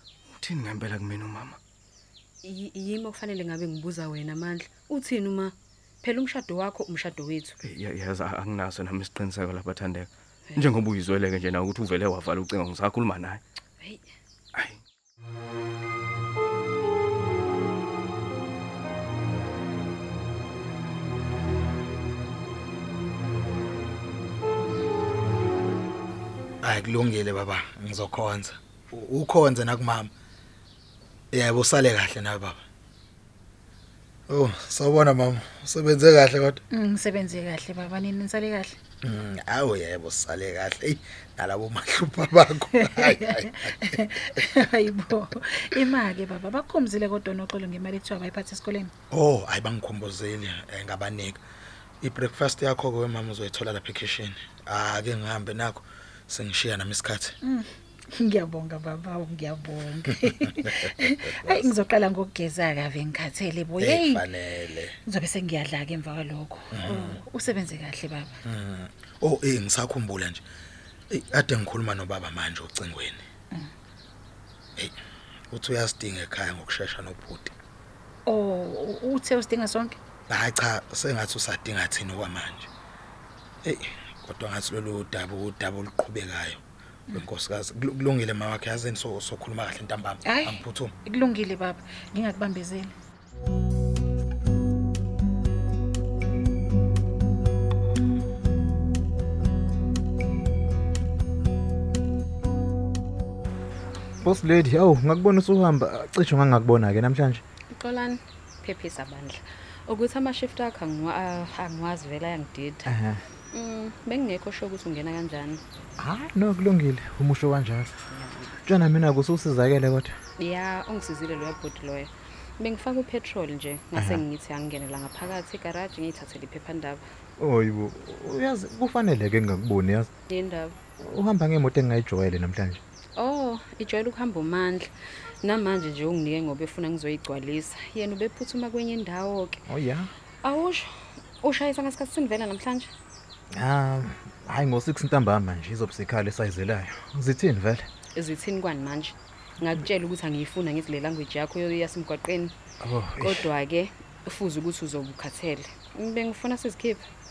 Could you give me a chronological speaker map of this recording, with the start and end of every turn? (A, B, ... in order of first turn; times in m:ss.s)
0:00.3-0:01.6 A
0:02.4-0:07.6 B
0:07.6-0:13.4 A
0:14.5-0:14.8 A
0:26.6-0:30.1 C
0:31.3-0:32.6 C
0:34.3-0:36.6 C
0:36.7-0:38.8 D
0:39.0-0:43.7 C
0:42.7-0:48.9 D
0:49.1-0:51.4 C
0:52.0-0:57.4 C
0:58.2-1:04.3 D
1:03.8-1:04.9 C
1:05.1-1:08.4 D
1:06.7-1:07.2 C
1:08.4-1:10.4 C
1:11.1-1:13.2 C
1:15.5-1:17.5 C
1:18.3-1:20.0 D
1:20.3-1:22.7 C
1:23.6-1:26.6 C
1:27.1-1:30.9 C
1:30.2-1:32.9 D
1:44.2-1:47.4 E
1:47.7-1:52.9 B
1:52.9-1:53.2 E
1:53.5-1:55.6 B
1:56.0-1:57.9 E
1:58.1-1:58.6 B
1:58.6-2:00.1 E
2:00.4-2:07.0 B
2:04.0-2:04.2 E
2:07.4-2:10.1 E
2:10.3-2:10.8 B
2:11.0-2:12.8 E
2:13.2-2:14.9 B
2:15.4-2:19.6 B
2:19.7-2:20.1 E
2:20.4-2:22.9 B
2:23.5-2:27.9 E
2:28.2-2:32.5 B
2:32.8-2:33.5 E
2:33.2-2:37.0 B